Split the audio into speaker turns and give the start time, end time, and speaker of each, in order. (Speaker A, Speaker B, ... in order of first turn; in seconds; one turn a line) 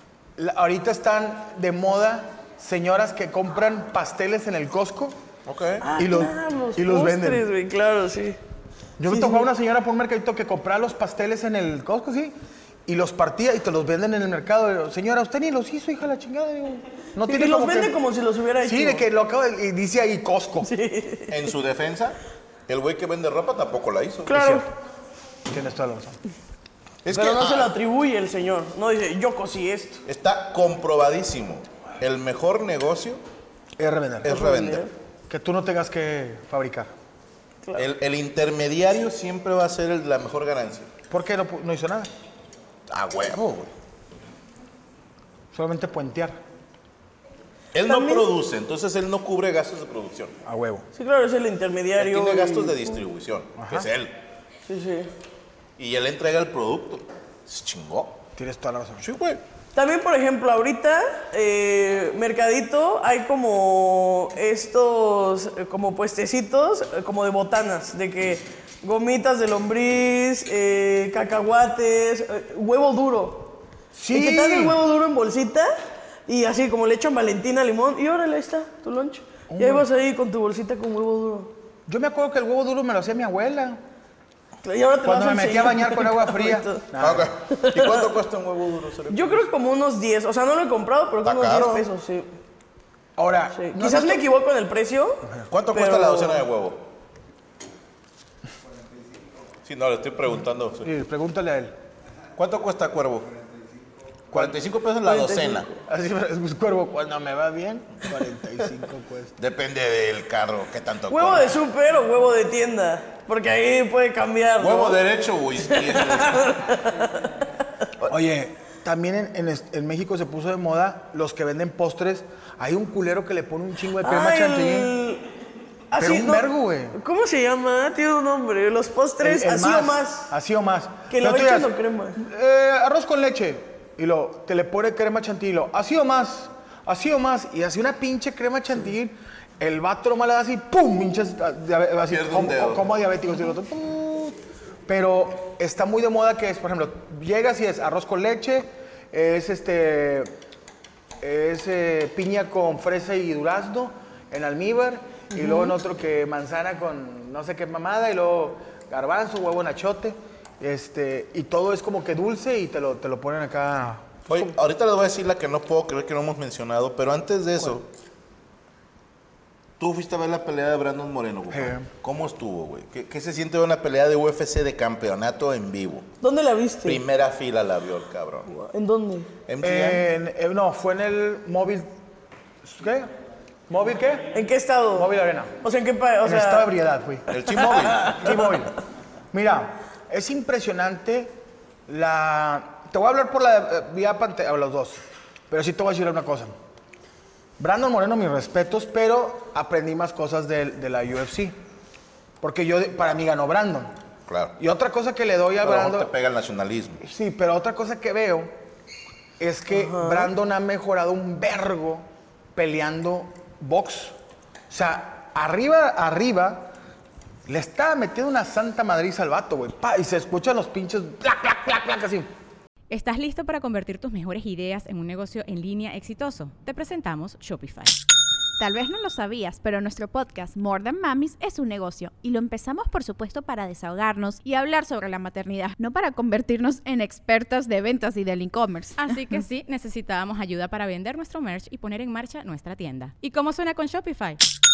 Speaker A: 0.4-5.2
Speaker B: 5.5-5.9
Speaker C: 5.8-8.4
Speaker A: 6.0-7.5
Speaker A: 9.0-12.3
Speaker C: 9.1-9.5
Speaker A: 12.9-18.0
Speaker C: 17.3-19.1
Speaker A: 18.6-20.7
Speaker C: 20.6-21.4
Speaker B: 21.3-24.4
Speaker C: 24.3-24.7
Speaker A: 24.3-24.6
Speaker A: 25.5-26.2
Speaker B: 27.0-27.7
Speaker C: 27.1-30.0
Speaker B: 30.1-33.2
Speaker A: 33.8-34.3
Speaker B: 34.2-34.9
Speaker C: 34.3-34.9
Speaker A: 35.3-36.9
Speaker B: 37.8-40.9
Speaker A: 41.1-42.1
Speaker B: 42.9-43.7
Speaker A: 45.5-46.4
Speaker B: 47.7-50.4
Speaker C: 47.8-48.3
Speaker A: 50.5-50.9
Speaker C: 51.0-53.0
Speaker B: 52.0-54.1
Speaker A: 53.6-53.9
Speaker C: 54.7-55.1
Speaker B: 55.8-58.2
Speaker A: 58.4-59.0
Speaker B: 59.0-59.4
Speaker C: 59.7-73.6
Speaker A: 73.9-74.8
Speaker C: 74.1-75.7
Speaker C: 76.3-81.5
Speaker A: 79.5-79.9
Speaker A: 81.9-83.8
Speaker C: 84.6-86.8
Speaker A: 85.0-87.3
Speaker B: 87.0-89.5
Speaker C: 87.5-88.2
Speaker C: 89.1-92.3
Speaker B: 91.2-91.9
Speaker A: 93.2-94.2
Speaker C: 93.5-96.5
Speaker B: 95.5-96.9
Speaker B: 99.6-100.9
Speaker A: 100.8-101.7
Speaker B: 102.4-103.3
Speaker B: 104.3-105.7
Speaker C: 105.0-105.8
Speaker A: 105.9-109.4
Speaker B: 109.4-111.6
Speaker C: 111.1-115.0
Speaker B: 114.6-116.6
Speaker C: 115.6-117.3
Speaker A: 118.1-124.9
Speaker C: 124.0-125.2
Speaker C: 125.9-130.3
Speaker A: 126.0-127.0
Speaker A: 129.2-150.3
Speaker C: 131.1-132.2
Speaker B: 142.1-142.9
Speaker A: 151.2-164.5
Speaker C: 155.3-155.7
Speaker B: 164.3-167.9
Speaker B: 169.8-176.1
Speaker A: 171.5-171.9
Speaker C: 176.2-177.0
Speaker B: 176.8-178.5
Speaker C: 178.5-179.3
Speaker B: 179.5-180.1
Speaker A: 179.6-181.9
Speaker A: 182.6-183.1
Speaker A: 183.7-184.3
Speaker C: 184.3-186.7
Speaker A: 184.9-185.5
Speaker A: 186.2-187.3
Speaker B: 187.3-188.2
Speaker C: 187.7-188.3
Speaker A: 188.1-188.8
Speaker A: 189.3-191.3
Speaker A: 191.9-195.0
Speaker A: 195.5-196.5
Speaker A: 197.6-201.6
Speaker A: 202.4-203.9
Speaker B: 204.3-204.6
Speaker A: 204.6-206.1
Speaker B: 205.6-207.0
Speaker A: 207.0-208.5
Speaker A: 209.4-212.0
Speaker C: 209.7-210.3
Speaker A: 212.6-214.2
Speaker A: 214.7-216.7
Speaker A: 217.5-222.3
Speaker D: 222.9-228.0
Speaker E: 228.6-239.4
Speaker D: 239.0-244.4